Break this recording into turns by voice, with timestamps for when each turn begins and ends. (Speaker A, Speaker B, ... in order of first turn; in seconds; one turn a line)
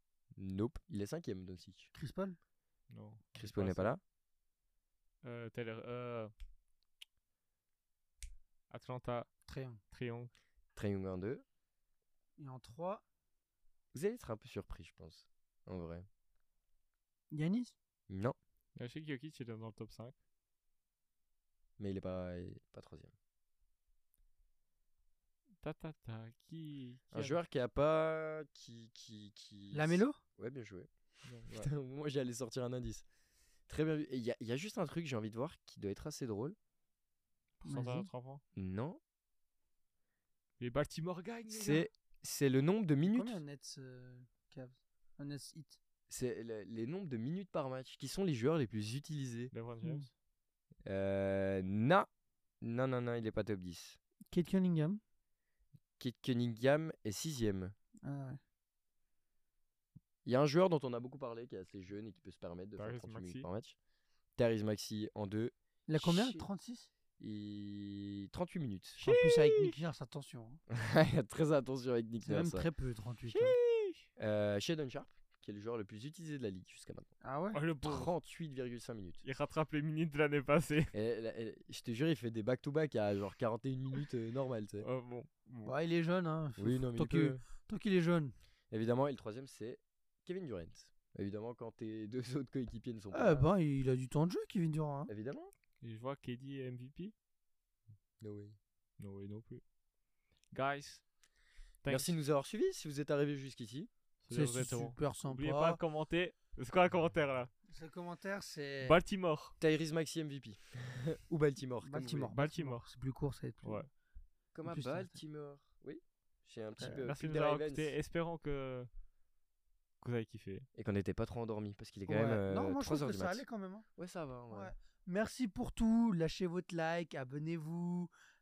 Speaker A: 0.4-1.9
Speaker B: 1.9-2.4
Speaker C: 2.9-4.0
Speaker A: 3.4-4.0
Speaker C: 5.2-6.3
Speaker C: 8.7-9.3
Speaker B: 9.5-9.8
Speaker C: 9.9-10.3
Speaker A: 10.7-11.4
Speaker B: 12.4-13.0
Speaker A: 13.9-16.1
Speaker B: 17.3-17.7
Speaker A: 18.1-18.4
Speaker C: 18.7-20.1
Speaker A: 21.8-23.1
Speaker C: 25.6-27.3
Speaker A: 27.1-30.9
Speaker B: 29.7-30.2
Speaker C: 31.2-31.7
Speaker A: 31.5-33.0
Speaker A: 33.7-36.5
Speaker B: 37.6-38.1
Speaker C: 37.6-38.4
Speaker A: 38.5-39.0
Speaker C: 40.6-41.9
Speaker A: 41.5-43.4
Speaker B: 43.0-45.8
Speaker A: 46.1-49.5
Speaker C: 49.5-50.1
Speaker A: 50.9-52.1
Speaker A: 52.6-54.0
Speaker B: 54.3-55.0
Speaker A: 56.0-57.7
Speaker B: 58.0-58.4
Speaker A: 60.2-63.8
Speaker C: 62.8-63.5
Speaker A: 64.3-66.4
Speaker B: 65.9-66.9
Speaker A: 67.2-69.7
Speaker B: 69.0-70.6
Speaker A: 70.7-72.7
Speaker B: 72.2-73.5
Speaker C: 73.3-74.0
Speaker A: 74.2-77.1
Speaker B: 77.2-77.6
Speaker C: 77.5-78.1
Speaker A: 77.8-79.2
Speaker C: 79.2-80.9
Speaker A: 80.9-84.8
Speaker C: 84.8-85.7
Speaker B: 85.7-88.3
Speaker A: 86.6-87.4
Speaker A: 88.7-93.4
Speaker B: 93.1-95.1
Speaker A: 95.1-95.5
Speaker C: 95.8-97.1
Speaker A: 98.2-98.5
Speaker C: 99.0-99.6
Speaker C: 100.5-101.0
Speaker C: 101.8-102.1
Speaker A: 101.9-103.9
Speaker C: 104.2-107.5
Speaker B: 104.3-105.8
Speaker B: 107.7-109.0
Speaker C: 108.8-109.5
Speaker A: 109.6-112.3
Speaker B: 111.8-113.8
Speaker C: 112.3-112.8
Speaker C: 113.6-113.9
Speaker A: 114.5-117.9
Speaker B: 114.6-115.2
Speaker C: 116.8-118.9
Speaker C: 120.0-120.7
Speaker A: 120.8-123.4
Speaker B: 122.1-123.8
Speaker A: 124.0-124.7
Speaker B: 124.5-128.1